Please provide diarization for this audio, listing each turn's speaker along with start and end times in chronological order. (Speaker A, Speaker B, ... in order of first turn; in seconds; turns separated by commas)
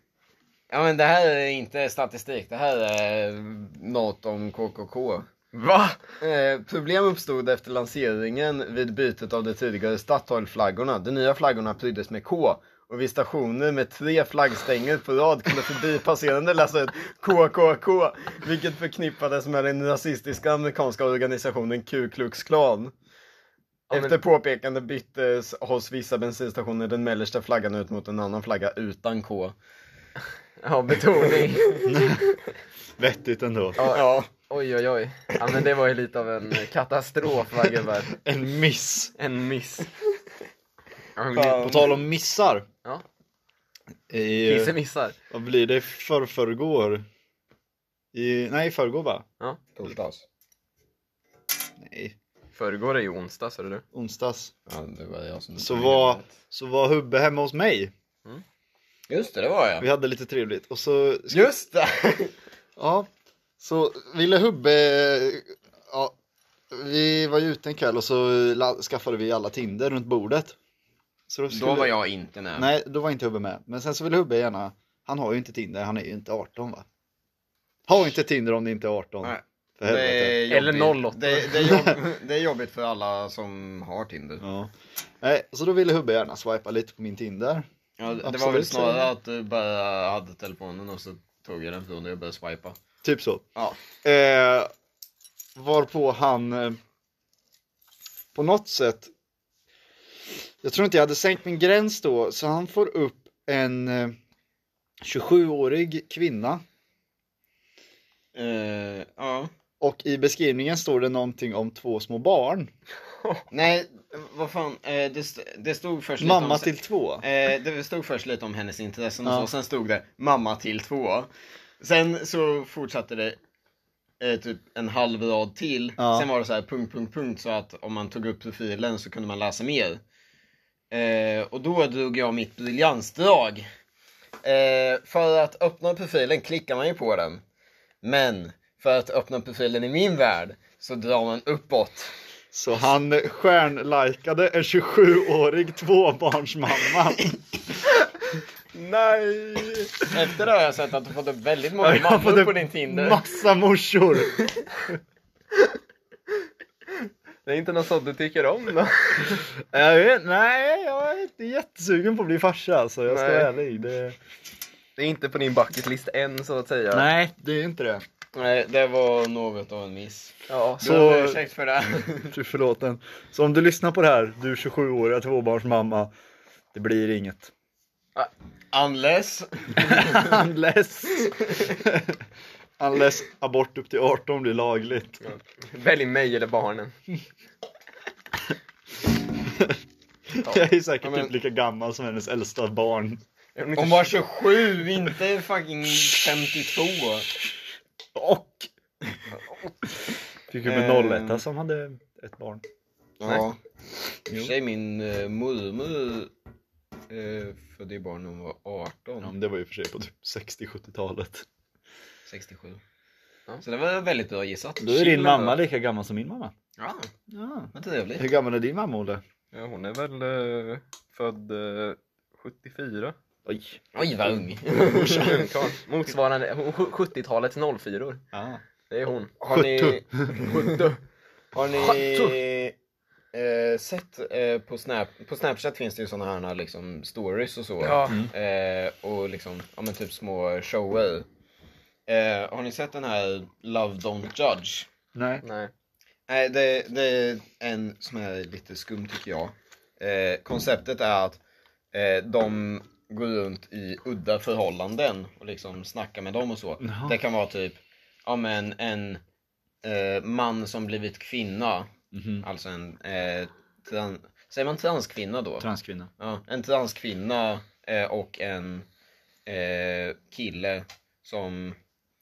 Speaker A: 0.7-5.3, Speaker B: 5.5-6.0, Speaker A: 6.2-22.9, Speaker B: 23.9-24.2, Speaker A: 23.9-29.6, Speaker B: 30.6-31.8, Speaker A: 31.4-31.9, Speaker C: 31.9-32.3, Speaker C: 33.0-33.8, Speaker B: 33.8-38.1, Speaker A: 33.9-34.3, Speaker C: 38.1-39.1, Speaker B: 39.2-39.9, Speaker B: 41.2-41.9, Speaker C: 41.3-42.7, Speaker C: 44.1-44.8, Speaker B: 44.4-45.2, Speaker C: 45.3-47.0, Speaker C: 48.1-49.3, Speaker A: 49.8-50.2, Speaker C: 51.8-52.2, Speaker B: 52.5-53.8, Speaker C: 53.9-54.5, Speaker A: 54.7-56.3, Speaker C: 55.6-57.9, Speaker A: 59.1-59.9, Speaker C: 59.8-61.5, Speaker A: 61.3-62.4, Speaker C: 62.8-63.1, Speaker C: 63.6-66.2, Speaker C: 66.7-70.6, Speaker C: 71.3-71.9, Speaker A: 71.5-72.7, Speaker C: 72.6-76.9, Speaker C: 77.9-80.4, Speaker A: 79.2-84.4, Speaker B: 80.5-81.6, Speaker C: 81.6-82.0, Speaker C: 84.4-87.7, Speaker A: 88.0-92.8, Speaker C: 88.2-89.1, Speaker C: 93.0-93.5, Speaker A: 93.6-93.8, Speaker C: 94.0-94.7, Speaker C: 95.6-96.8, Speaker C: 98.3-99.1, Speaker C: 100.6-104.2, Speaker C: 105.0-106.6, Speaker A: 108.3-109.5, Speaker C: 109.8-112.7, Speaker A: 113.5-121.3, Speaker C: 116.2-117.2, Speaker A: 121.8-123.4, Speaker A: 124.2-130.0, Speaker C: 126.0-126.3, Speaker A: 130.9-133.7, Speaker A: 134.4-137.4, Speaker A: 138.0-142.1, Speaker C: 142.5-147.3, Speaker B: 148.7-149.9, Speaker A: 150.1-153.2, Speaker C: 151.8-154.9, Speaker B: 157.5-159.4, Speaker C: 159.7-164.2, Speaker B: 163.1-163.5, Speaker B: 165.0-167.1, Speaker C: 166.9-168.1, Speaker A: 168.3-172.3, Speaker B: 170.5-170.8, Speaker C: 170.8-171.4, Speaker C: 172.3-176.1, Speaker C: 176.7-177.5, Speaker A: 178.7-180.4, Speaker C: 179.8-182.2, Speaker A: 181.2-181.8, Speaker C: 182.8-185.2, Speaker B: 185.2-186.9, Speaker C: 189.5-189.8, Speaker C: 190.4-193.2, Speaker A: 191.0-191.3, Speaker B: 193.6-194.2, Speaker A: 193.8-197.3, Speaker C: 198.2-198.7, Speaker C: 200.5-202.6, Speaker A: 200.6-201.4, Speaker A: 203.2-203.6, Speaker A: 204.3-206.3, Speaker A: 207.1-209.3, Speaker C: 209.2-211.5, Speaker A: 212.3-212.8, Speaker A: 213.6-215.6, Speaker C: 214.8-216.5, Speaker A: 216.8-217.1, Speaker C: 217.3-219.2, Speaker A: 217.7-218.3, Speaker B: 219.5-223.2, Speaker C: 223.5-223.8, Speaker A: 223.9-225.5, Speaker B: 225.0-228.2, Speaker C: 228.3-228.6, Speaker B: 228.9-229.4, Speaker A: 229.4-230.8, Speaker C: 229.5-230.3, Speaker B: 230.3-231.0, Speaker A: 231.5-232.7, Speaker B: 231.8-232.4, Speaker A: 233.3-241.3, Speaker B: 237.8-238.2, Speaker A: 242.1-244.9, Speaker C: 245.2-245.4, Speaker B: 245.4-245.7, Speaker A: 246.3-251.4, Speaker A: 251.9-259.2, Speaker C: 256.8-257.2, Speaker A: 259.8-265.7, Speaker C: 262.1-262.4, Speaker C: 265.6-266.1, Speaker A: 266.2-268.9, Speaker A: 269.5-271.8